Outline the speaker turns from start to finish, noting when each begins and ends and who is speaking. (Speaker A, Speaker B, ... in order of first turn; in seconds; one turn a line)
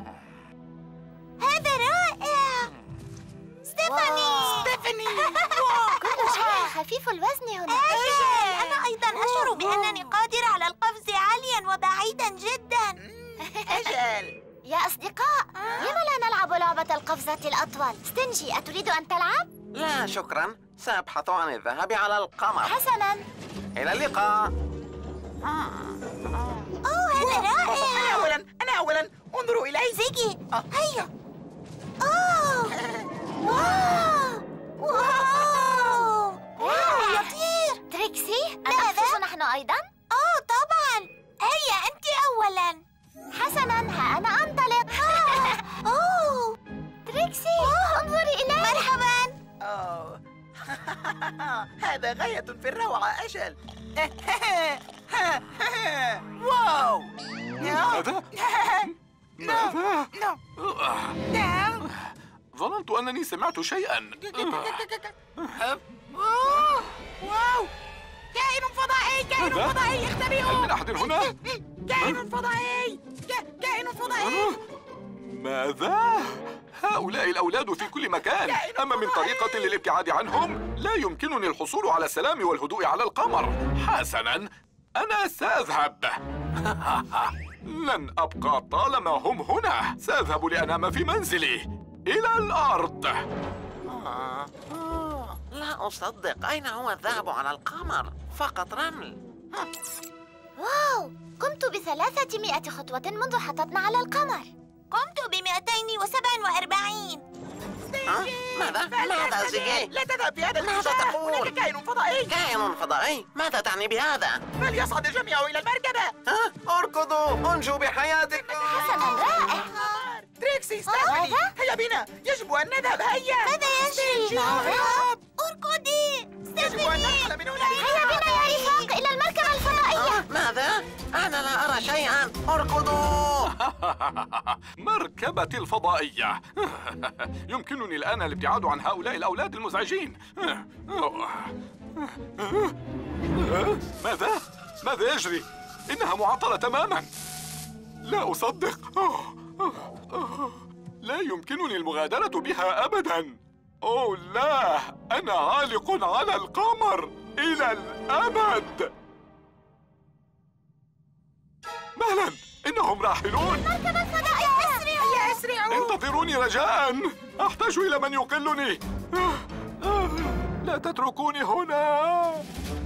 Speaker A: 1.4-2.7
Speaker A: 3.6-6.7
Speaker B: 3.9-6.0
Speaker C: 6.0-8.3
Speaker A: 7.7-13.0
Speaker B: 7.9-9.7
Speaker B: 13.0-14.4
Speaker C: 13.5-14.0
Speaker C: 14.6-19.5
Speaker D: 19.7-22.8
Speaker C: 22.6-23.2
Speaker D: 23.8-24.5
Speaker D: 25.4-26.0
Speaker A: 26.8-28.3
Speaker B: 27.2-30.7
Speaker A: 29.9-31.1
Speaker A: 32.0-32.8
Speaker B: 32.9-33.9
Speaker A: 33.4-37.8
Speaker C: 34.9-35.8
Speaker C: 36.6-37.3
Speaker C: 37.9-39.9
Speaker A: 38.6-39.2
Speaker A: 40.1-42.8
Speaker C: 43.3-45.6
Speaker A: 45.0-46.6
Speaker A: 47.1-49.4
Speaker C: 47.2-48.9
Speaker B: 49.6-60.4
Speaker E: 57.6-58.2
Speaker E: 59.4-61.2
Speaker B: 61.3-61.8
Speaker E: 61.9-64.8
Speaker B: 64.2-67.7
Speaker E: 65.4-65.8
Speaker B: 68.3-74.5
Speaker E: 69.4-69.8
Speaker E: 70.4-71.3
Speaker E: 74.2-74.6
Speaker E: 75.3-93.2
Speaker B: 78.4-79.7
Speaker D: 93.9-99.6
Speaker C: 100.6-104.5
Speaker A: 104.9-107.2
Speaker B: 107.9-112.3
Speaker D: 108.1-109.9
Speaker D: 110.6-111.5
Speaker D: 112.3-114.4
Speaker B: 114.6-116.1
Speaker D: 116.2-118.7
Speaker B: 118.4-125.2
Speaker C: 118.6-119.7
Speaker A: 118.9-119.5
Speaker C: 120.9-121.5
Speaker A: 123.4-128.9
Speaker B: 126.6-128.2
Speaker C: 127.8-130.2
Speaker D: 129.9-133.5
Speaker E: 133.6-142.7
Speaker E: 143.4-147.1
Speaker E: 148.1-158.9
Speaker E: 162.0-163.7
Speaker A: 163.6-165.4
Speaker C: 163.7-164.9
Speaker B: 165.0-166.0
Speaker E: 165.7-172.4